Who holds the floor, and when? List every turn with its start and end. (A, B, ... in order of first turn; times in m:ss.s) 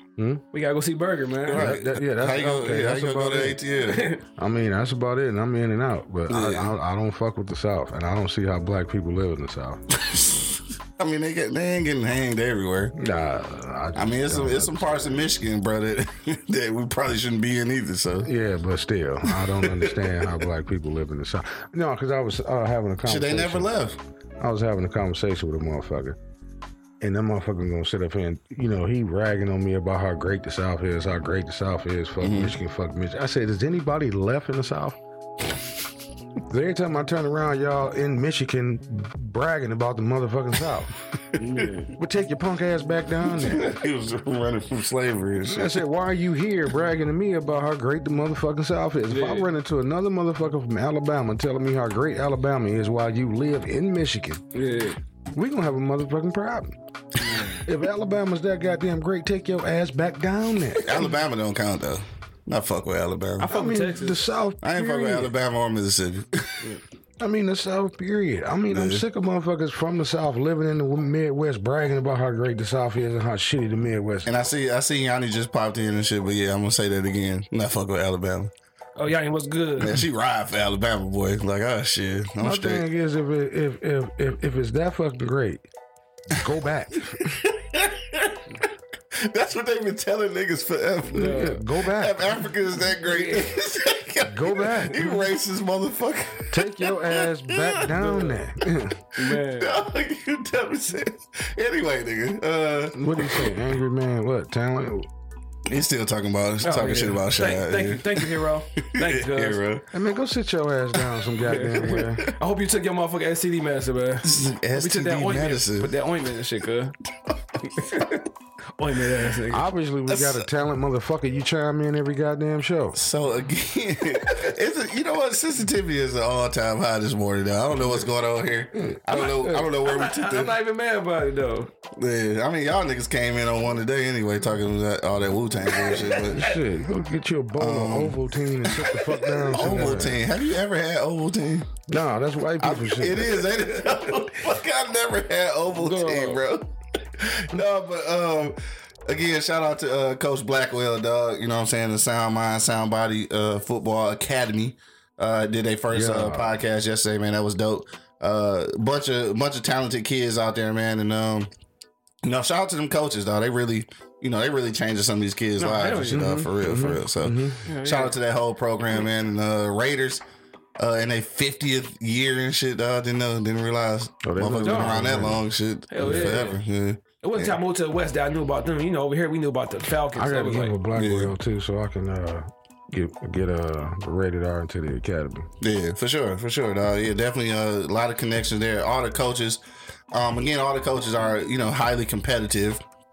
0:00.2-0:00.4 A
0:00.5-0:01.7 B
0:01.5-0:04.1 C
0:01.5-0:03.6 A
0:03.8-0:04.2 B
0:04.4-0:09.8 A
0:06.3-0:06.7 C
0:10.0-0:12.9 C
0:13.0-0:15.2 A
0:13.9-0:18.3 C
0:18.2-0:23.7 A
0:19.2-0:20.4 C
0:23.0-0:24.0 C
0:24.4-0:26.2 A
0:27.0-0:35.0 A
0:32.2-0:32.6 C
0:36.5-0:41.0 A
0:41.3-0:41.7 C
0:41.4-0:41.9 B
0:42.0-0:43.7 A
0:43.3-0:45.8 C
0:45.5-0:54.4 A
0:49.1-0:49.5 B
0:54.5-0:55.0 B
0:55.3-0:56.8 A
0:57.6-1:01.0 A
1:00.8-1:03.5 C
1:03.4-1:04.3 B
1:03.5-1:05.3 A
1:04.6-1:06.7 C
1:07.2-1:14.3 A
1:08.7-1:09.0 C
1:14.2-1:18.5 C
1:19.0-1:20.0 B
1:19.8-1:22.8 C
1:22.4-1:25.6 A
1:26.3-1:27.4 A
1:27.2-1:28.6 C
1:29.1-1:38.0 C
1:31.1-1:32.2 A
1:31.1-1:31.6 B
1:33.0-1:33.5 B
1:34.3-1:35.2 A
1:36.5-1:39.0 A
1:38.0-1:38.4 B
1:39.1-1:39.8 B
1:39.2-1:43.5 C
1:43.0-1:45.1 A
1:45.7-1:49.8 C
1:46.6-1:49.6 B
1:49.9-1:52.2 A
1:51.0-1:51.2 C
1:51.4-1:57.0 B
1:52.0-1:52.3 C
1:54.2-1:55.9 C
1:57.3-1:58.0 C
1:57.7-1:58.2 B
1:58.8-1:59.7 B
1:59.5-2:03.0 A
2:00.1-2:00.5 C
2:02.9-2:10.6 C
2:08.7-2:09.2 A
2:09.1-2:11.7 B
2:11.9-2:16.4 C
2:15.9-2:16.6 B
2:16.3-2:20.2 A
2:17.6-2:21.8 C
2:21.9-2:23.5 A
2:22.6-2:41.5 C
2:25.7-2:26.4 B
2:35.9-2:36.5 A
2:42.2-2:50.2 C
2:45.6-2:46.4 B
2:46.1-2:47.6 A
2:47.7-2:48.1 B
2:50.8-2:57.6 C
2:54.2-2:55.4 A
2:54.6-2:55.2 B
2:55.9-2:56.6 B
2:56.0-2:56.3 A
2:57.2-3:00.8 B
3:00.2-3:05.5 A
3:00.9-3:01.3 C
3:05.6-3:12.8 C